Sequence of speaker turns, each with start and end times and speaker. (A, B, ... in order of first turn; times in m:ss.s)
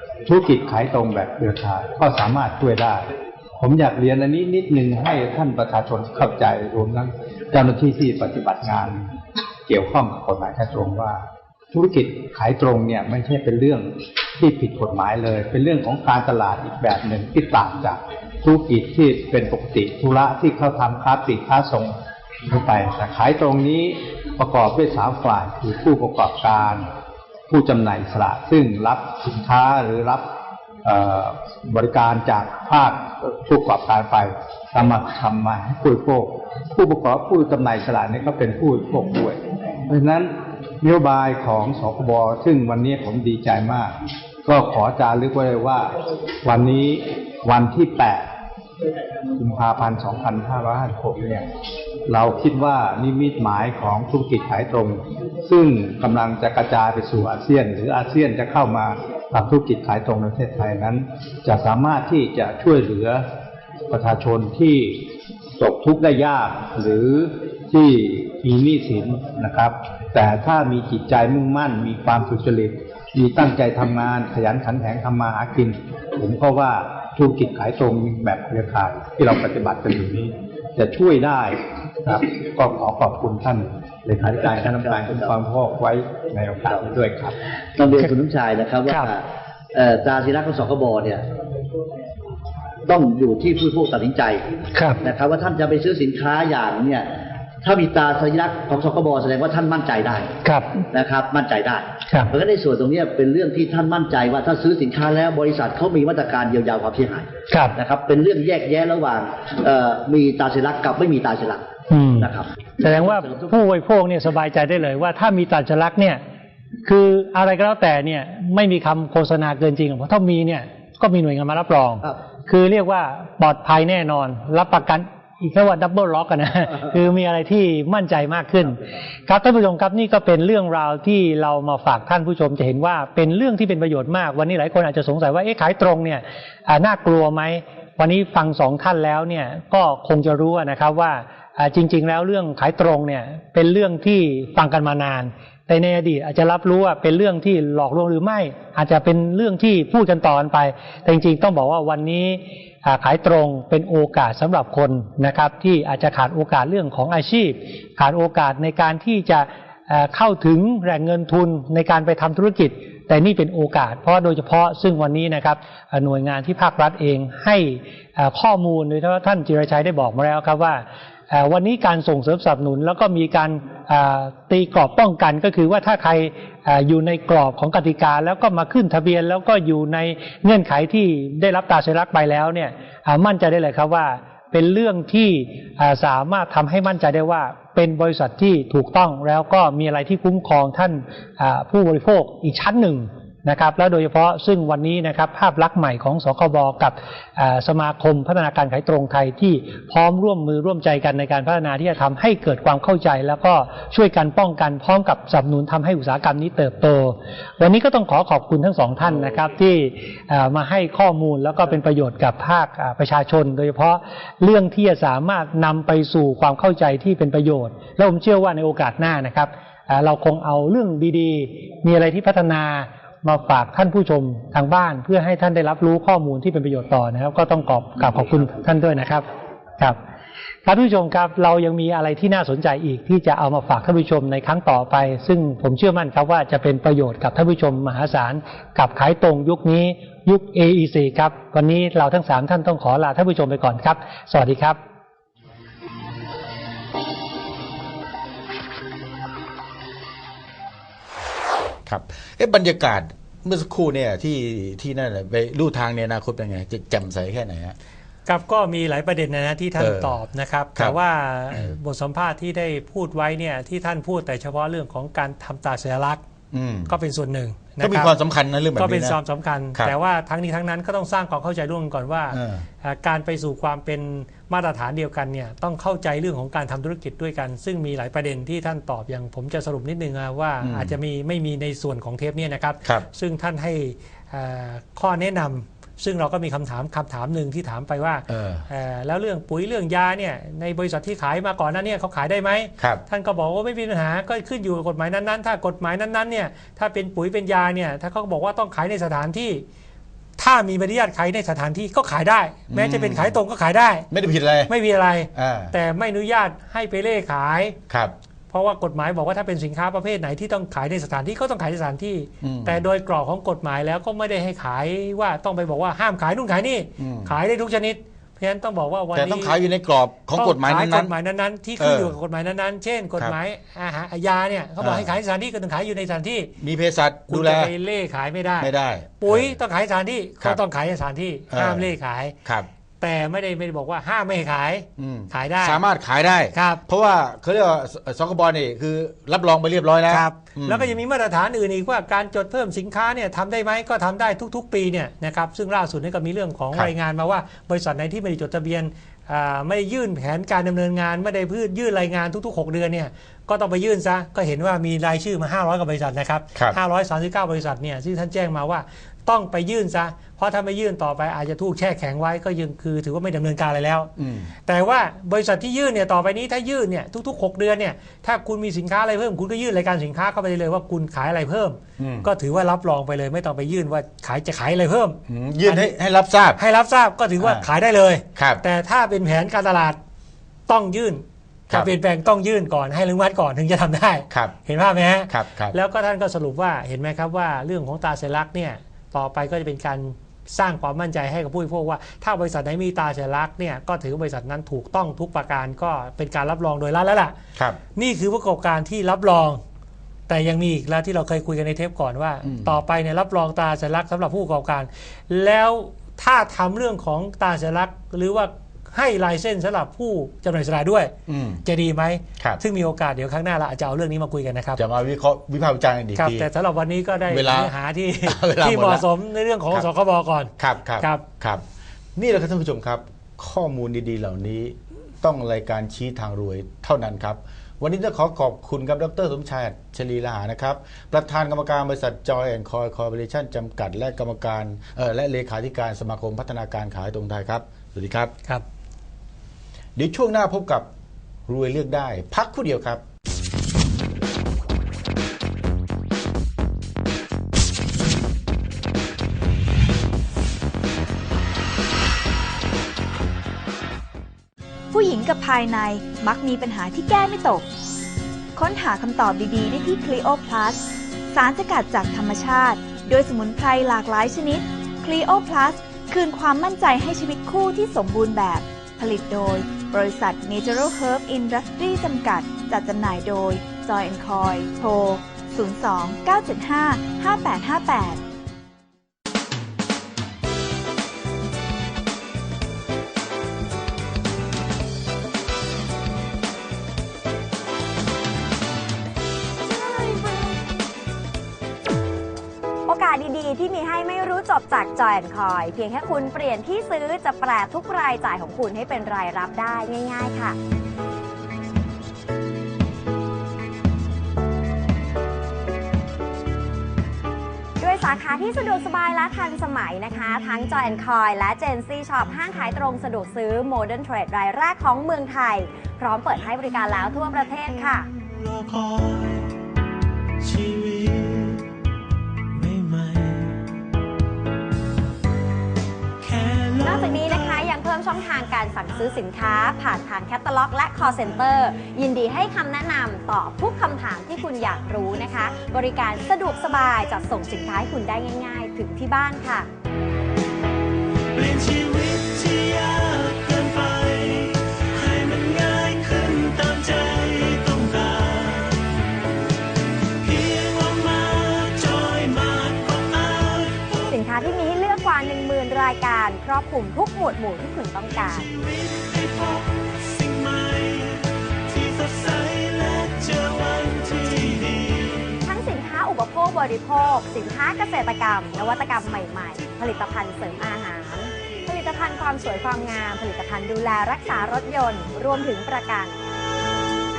0:00.2-0:03.1 A
0:03.6-0:09.0 A
0:09.7-0:22.0 A
0:22.5-0:26.8 A
0:27.5-0:30.3 A
0:30.8-0:43.9 A
0:44.4-0:45.9 A
0:46.4-0:48.3 A
0:49.4-0:51.4 A
0:52.1-1:03.2 A
1:03.9-1:05.0 A
1:05.6-1:27.4 A
1:24.6-1:25.3 B
1:27.8-1:31.2 B
1:32.9-1:34.4 B
1:34.7-1:35.0 C
1:35.0-1:37.1 B
1:37.6-1:40.3 B
1:40.4-1:40.7 C
1:40.9-1:53.6 B
1:47.5-1:47.8 C
1:51.9-1:52.3 C
1:52.8-1:56.2 C
1:56.8-3:49.2 C
3:50.6-4:04.8 C
4:11.8-4:17.8 D
4:18.2-4:26.2 E
4:19.8-4:20.2 D
4:26.5-4:26.9 D
4:26.9-4:28.1 E
4:27.8-4:29.2 D
4:28.8-4:59.6 E
4:32.3-4:32.6 D
4:40.6-4:41.0 D
4:48.3-4:48.6 D
5:00.4-5:04.1 E
5:02.7-5:03.4 D
5:04.1-5:04.7 D
5:04.7-5:07.8 E
5:05.3-5:05.7 D
5:08.5-5:19.6 E
5:12.4-5:12.8 D
5:17.0-5:17.4 D
5:19.1-5:21.1 D
5:20.3-5:26.5 E
5:21.8-5:22.2 D
5:24.8-5:25.1 D
5:26.6-5:27.7 D
5:27.3-5:32.4 E
5:28.6-5:29.6 D
5:31.5-5:32.7 D
5:33.0-5:35.8 E
5:35.0-5:40.9 D
5:36.5-5:36.8 E
5:40.1-6:04.1 E
6:04.2-6:04.5 D
6:04.6-6:15.9 E
6:12.0-6:12.3 D
6:15.3-6:16.6 D
6:16.6-6:20.0 E
6:17.4-6:17.7 D
6:18.4-6:18.6 D
6:20.7-6:37.4 E
6:24.3-6:24.6 D
6:25.3-6:25.8 D
6:37.9-6:39.6 E
6:40.3-6:51.1 E
6:42.4-6:42.8 D
6:51.3-6:51.6 D
6:51.6-6:54.8 E
6:54.8-6:56.5 D
6:56.2-7:01.2 E
6:57.3-6:59.0 D
7:00.6-7:01.6 D
7:02.2-7:18.3 D
7:20.0-7:20.9 D
7:21.5-7:23.0 D
7:34.9-7:37.7 F
7:38.5-7:58.2 F
8:09.7-8:10.6 G
8:12.9-8:20.6 G
8:27.8-8:38.1 G
8:38.7-8:39.0 H
8:40.5-8:41.6 H
8:42.6-8:43.5 H
8:46.3-8:47.6 H
8:46.8-8:59.7 G
9:01.4-9:08.8 H
9:10.2-9:14.1 H
9:14.1-9:18.5 G
9:18.4-9:21.1 H
9:21.7-9:25.0 H
9:25.4-9:36.1 G